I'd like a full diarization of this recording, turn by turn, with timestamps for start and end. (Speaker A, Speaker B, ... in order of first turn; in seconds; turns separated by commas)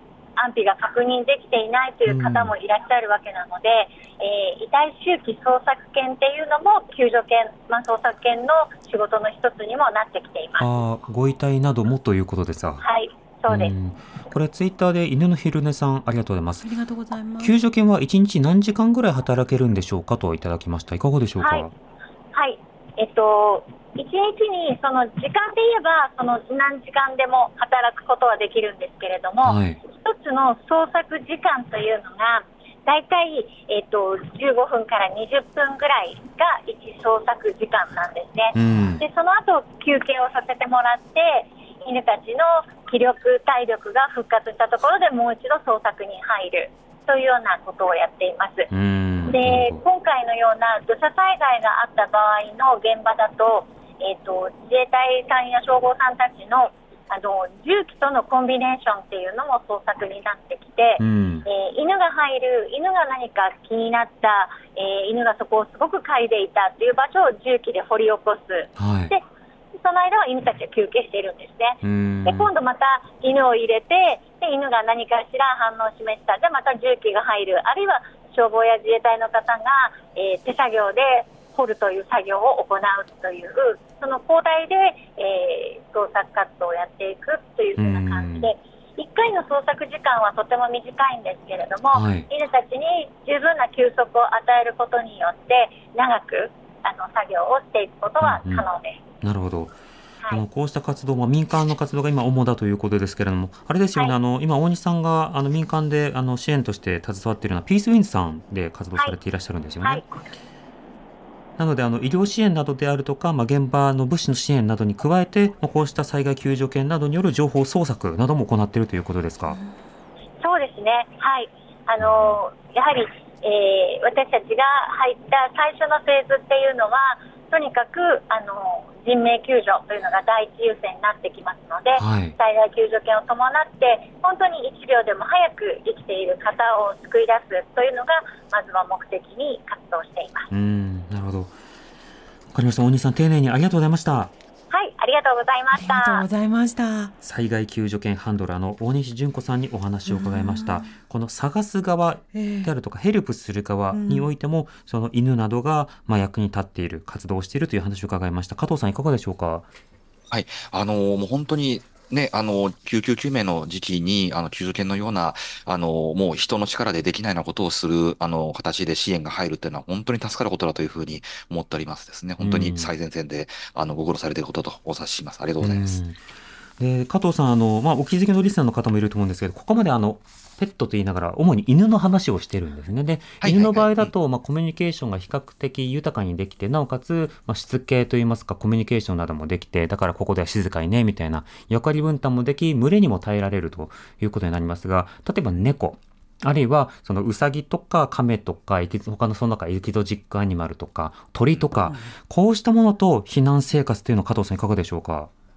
Speaker A: 0.4-10.7, Speaker B: 2.1-2.5, Speaker B: 10.6-12.8, Speaker A: 12.8-13.7, Speaker B: 13.5-16.7, Speaker C: 16.6-17.5, Speaker B: 17.4-21.7, Speaker A: 21.4-21.7, Speaker A: 22.3-48.7, Speaker B: 29.4-29.8, Speaker B: 38.5-39.0, Speaker B: 48.7-49.8, Speaker A: 49.2-69.2, Speaker B: 61.0-61.5, Speaker B: 68.8-69.1, Speaker A: 69.8-99.0, Speaker B: 71.8-72.5, Speaker B: 87.8-88.5, Speaker B: 91.9-92.3, Speaker B: 98.2-98.6, Speaker B: 99.2-99.8, Speaker B: 100.3-110.0, Speaker B: 111.6-119.6, Speaker A: 120.4-140.5, Speaker B: 122.0-122.4, Speaker B: 132.0-132.3, Speaker B: 140.5-141.5, Speaker B: 142.5-144.3, Speaker A: 144.7-146.2, Speaker C: 145.7-147.1, Speaker B: 147.2-159.7, Speaker C: 150.1-150.9, Speaker C: 152.3-152.7, Speaker C: 153.9-154.3, Speaker D: 160.3-176.0, Speaker B: 172.4-172.9, Speaker B: 175.6-176.2, Speaker B: 176.8-205.3, Speaker D: 183.4-184.1